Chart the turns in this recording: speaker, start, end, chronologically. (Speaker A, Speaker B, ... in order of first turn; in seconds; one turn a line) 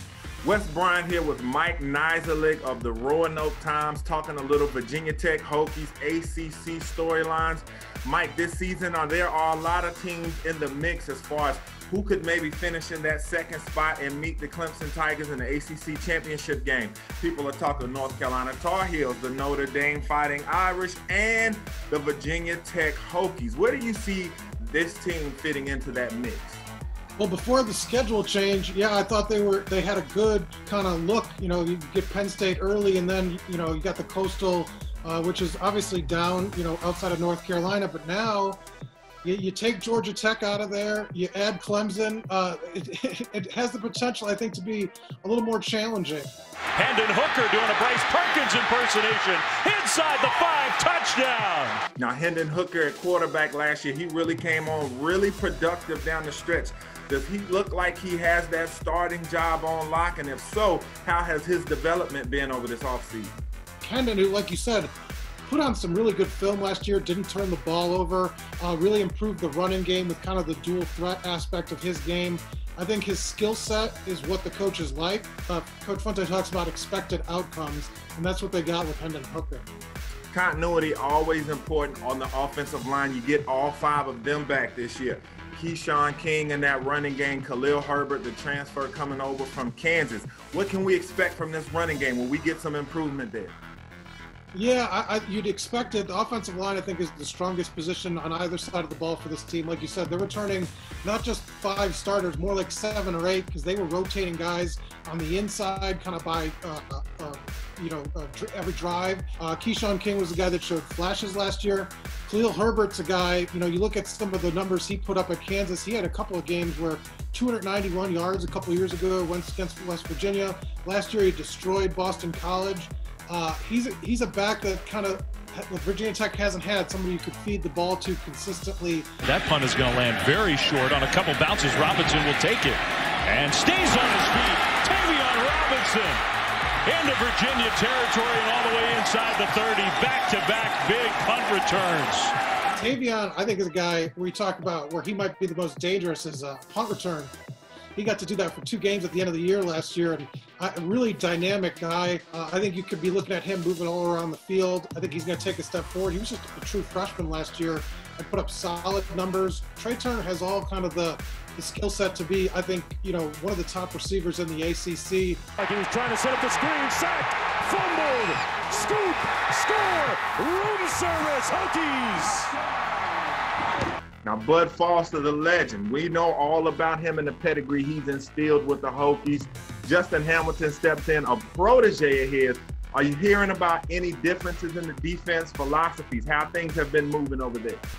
Speaker A: 0.4-26.6
Speaker B: 27.2-38.6
Speaker B: 39.2-46.3
Speaker C: 46.8-51.8
Speaker A: 52.0-63.4
Speaker B: 63.8-64.9
Speaker B: 65.5-79.7
Speaker A: 80.3-93.5
Speaker B: 94.5-129.1
Speaker C: 129.2-136.2
Speaker C: 136.9-142.3
Speaker B: 142.7-147.3
Speaker B: 148.0-165.4
Speaker C: 165.6-172.5
Speaker A: 174.2-187.8